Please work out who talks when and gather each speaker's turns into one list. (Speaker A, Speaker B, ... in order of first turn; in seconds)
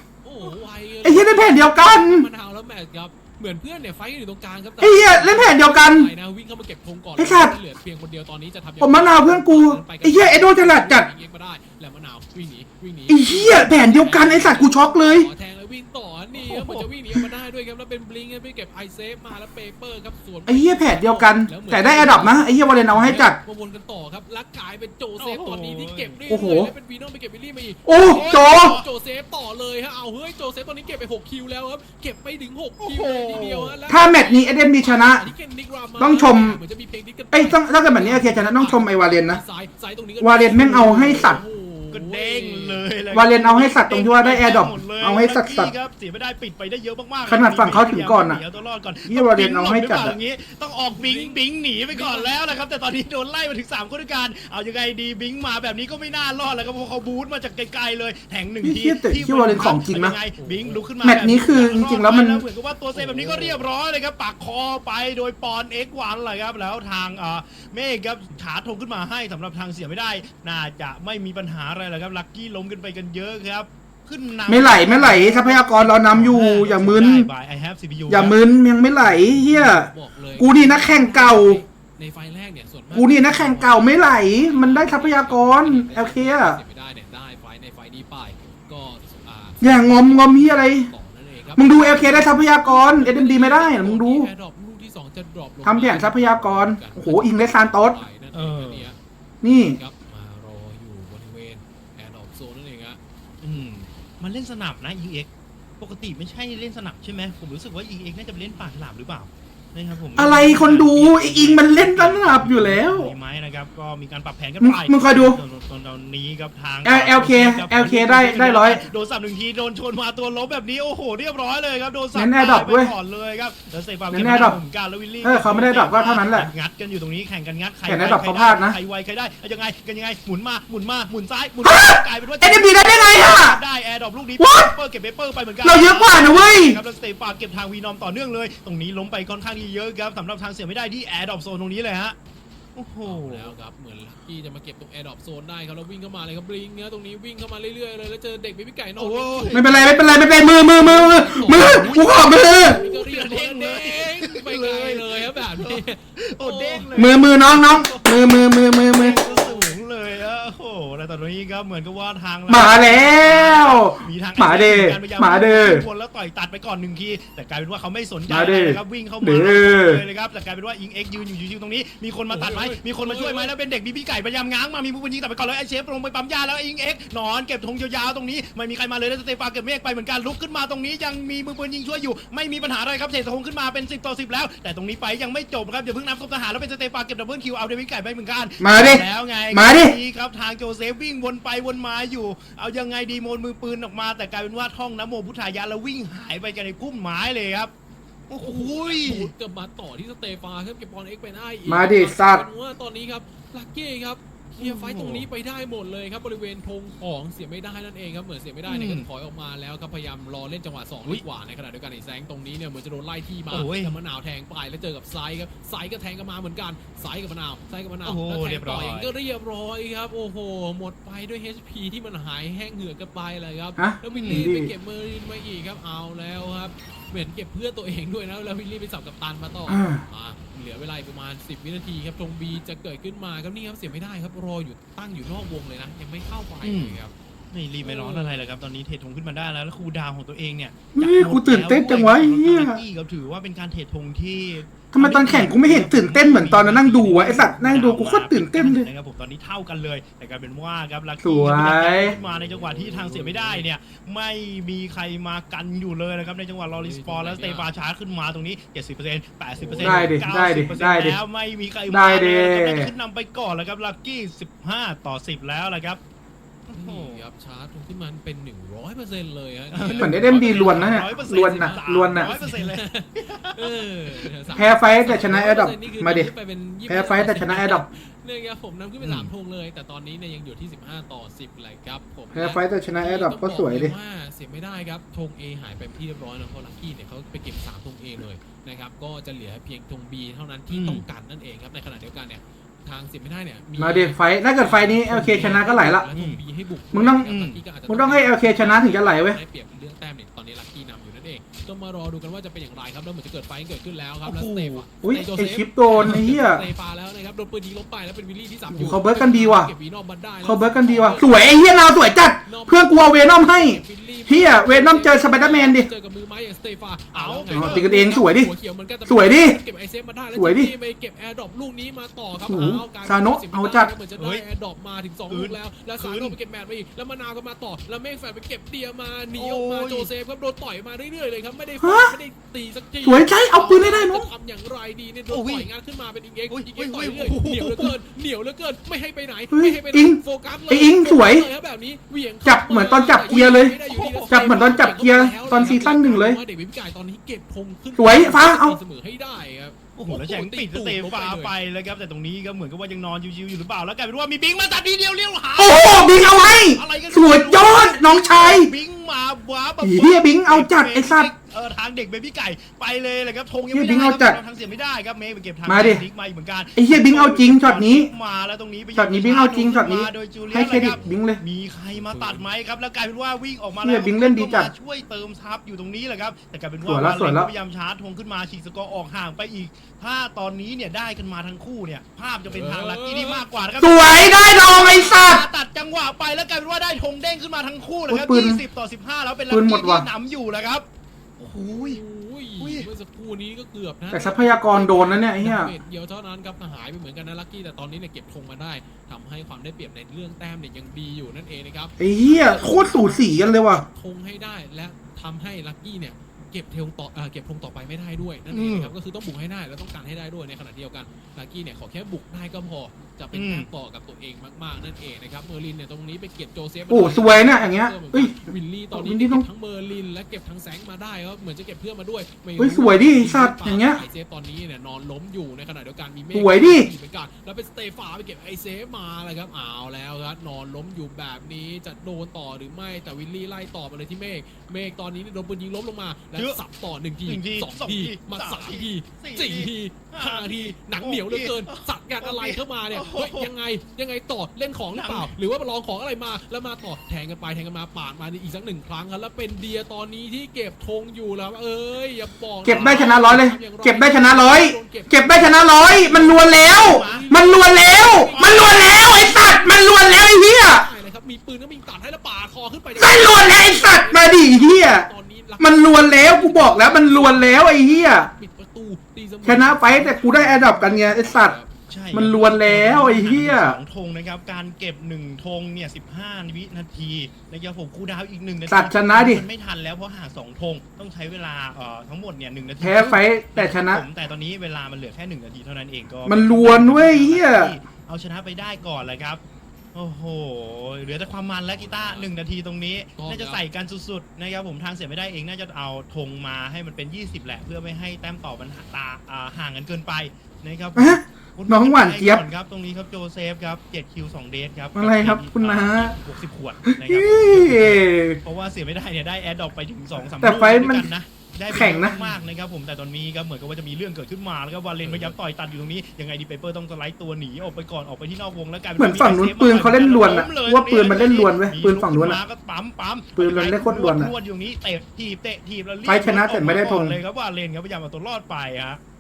Speaker A: 0.2-42.9, 50.9-52.4, 60.4-60.9, 62.9-63.6, 79.0-99.0, 99.6-103.0, 143.0-157.0, 158.9-159.7, 172.3-173.5, 198.4-237.1, 237.8-238.4, 252.0-253.7, 256.7-257.7, 259.6-260.2, 266.8-311.7, 312.5-351.5, 370.8-371.2, 371.9-372.5, 382.5-383.4, 391.7-472.3, 491.7-492.3, 493.2-493.6, 515.0-515.4
Speaker B: 1.0-2.3, 4.8-6.1, 7.2-7.5, 8.8-11.1, 13.1-15.3, 16.4-17.2, 20.5-23.4, 26.3-26.7, 27.9-28.8, 33.9-35.3, 36.0-36.6, 37.3-39.4, 40.2-41.4, 43.1-45.7, 47.3-48.4, 49.1-50.2, 58.6-60.2, 61.0-62.4, 74.5-77.3, 78.1-81.6, 82.9-86.6, 89.6-90.9, 91.6-94.3, 95.6-98.0, 99.4-99.8, 110.2-113.1, 114.6-115.4, 116.8-118.8, 122.2-122.9, 124.1-124.6, 125.2-126.5, 127.9-128.8, 131.6-133.6, 134.4-134.7, 135.6-136.8, 149.5-152.8, 156.9-159.2, 162.5-165.8, 168.3-170.0, 188.6-189.9, 201.7-202.4, 223.8-224.7, 229.7-230.0, 240.9-242.8, 244.9-248.9, 251.2-252.1, 259.8-261.2, 261.9-262.9, 270.0-272.3, 274.6-276.3, 276.9-277.9, 282.3-283.9, 293.8-296.1, 296.9-297.3, 297.9-299.4, 305.0-306.6, 308.7-309.7, 310.4-315.9, 317.5-318.5, 319.1-319.6, 320.4-320.7, 322.4-323.9, 331.8-332.1, 333.0-334.3, 339.5-341.5, 342.4-343.8, 344.3-346.4, 348.0-348.8, 355.6-358.7, 359.8-361.3, 363.7-364.4, 365.7-366.0, 366.8-368.1, 369.0-371.4, 373.8-374.7, 376.9-377.5, 383.8-385.4, 388.1-388.6, 389.5-390.1, 394.1-395.7, 402.0-403.9, 416.9-418.4, 418.9-419.5, 422.6-424.0, 426.3-426.9, 452.6-460.9, 463.0-465.1, 465.6-468.3, 469.4-471.6, 472.1-473.8, 478.7-479.4, 482.8-484.0, 486.3-487.8, 501.0-502.4, 504.9-506.1, 506.9-508.4, 510.4-511.1, 511.7-512.2, 519.0-522.4, 523.4-524.3, 526.1-527.2
Speaker C: 25.2-26.2, 28.1-28.8, 32.8-33.8, 41.9-78.4, 98.3-98.9, 103.4-105.3, 105.8-142.2, 142.8-143.5, 149.0-149.6, 151.5-197.7, 198.3-199.3, 204.6-205.3, 208.7-209.1, 213.5-213.9, 218.1-219.1, 224.1-224.4, 236.6-237.0, 237.5-266.0, 266.7-267.2, 269.7-274.6, 279.0-279.3, 290.7-291.0, 296.1-296.4, 297.2-297.6, 304.2-304.9, 317.1-317.9, 324.2-324.4, 325.3-326.4, 329.3-330.1, 335.3-335.7, 336.5-337.9, 343.3-344.4, 350.0-390.9, 391.4-392.0, 392.6-392.9, 408.5-408.9, 413.3-413.7, 437.3-443.5, 444.9-445.3, 452.7-453.1, 456.1-457.4, 458.3-458.5, 471.9-489.4, 489.9-529.0